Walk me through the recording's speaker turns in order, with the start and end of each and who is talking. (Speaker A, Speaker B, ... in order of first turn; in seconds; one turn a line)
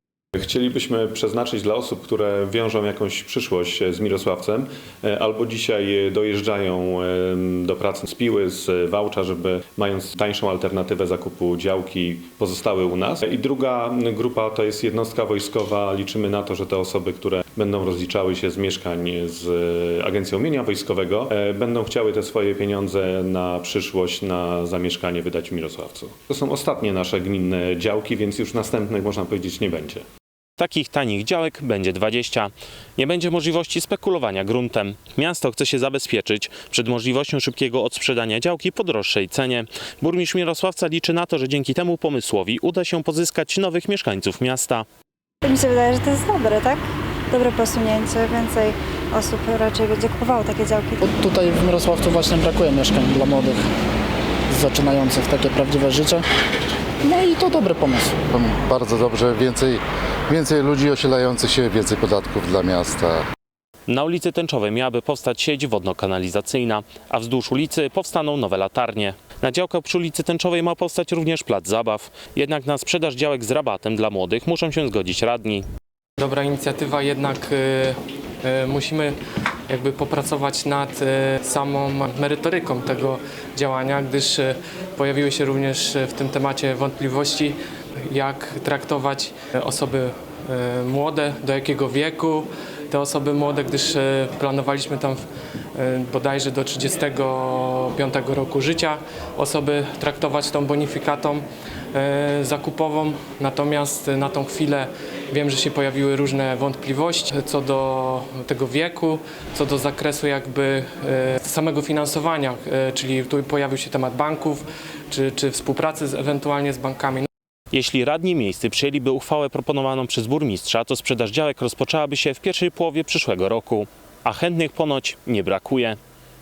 Speaker A: 0.3-30.1
Speaker B: 30.6-44.9
Speaker C: 45.4-51.0
Speaker D: 51.0-53.6
Speaker D: 54.5-56.2
Speaker D: 57.0-58.2
Speaker E: 58.2-63.2
Speaker B: 63.9-75.7
Speaker F: 76.2-79.2
Speaker F: 79.7-87.6
Speaker F: 88.1-95.2
Speaker F: 95.7-117.3
Speaker B: 117.7-126.0